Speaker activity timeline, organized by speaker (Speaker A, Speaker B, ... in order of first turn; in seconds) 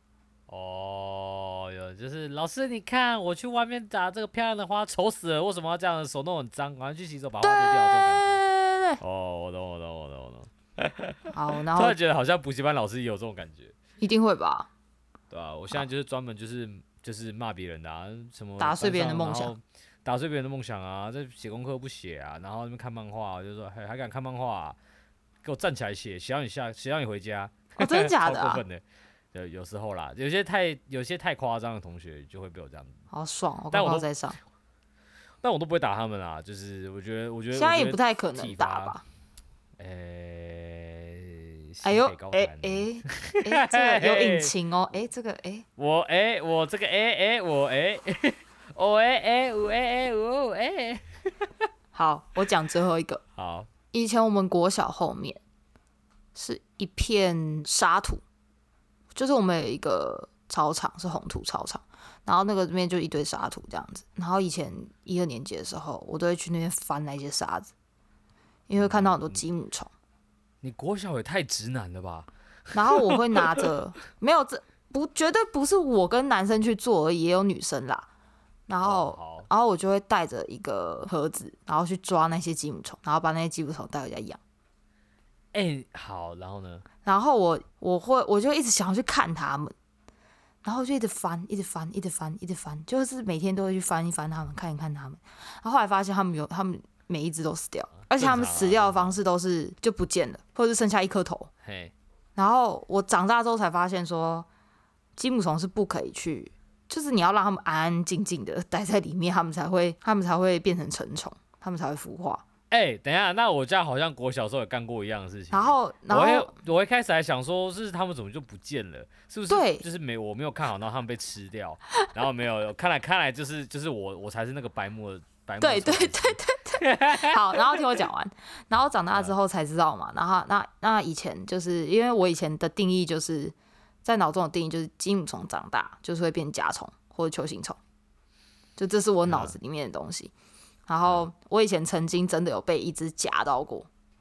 Speaker A: 0.5-8.4, 9.0-13.7, 15.3-24.8, 25.4-33.0, 33.7-34.1, 35.4-39.0, 39.8-44.5, 45.8-51.6, 53.4-53.7, 68.8-69.4, 70.6-73.7, 78.8-79.5, 85.5-86.8, 98.1-99.2, 101.6-101.9, 112.7-127.8, 139.2-139.5
Speaker B: 7.4-9.0, 11.3-12.0, 14.0-14.7, 18.6-19.5, 27.8-28.6, 33.1-34.4, 37.5-39.0, 41.8-45.6, 51.9-53.2, 53.9-55.4, 56.3-58.2, 59.1-67.7, 68.7-69.9, 72.7-78.1, 78.7-84.4, 87.0-89.7, 90.6-101.5, 102.3-104.5, 105.2-112.4, 115.5-116.6, 119.5-119.8, 125.6-137.8, 138.8-140.3, 140.9-143.9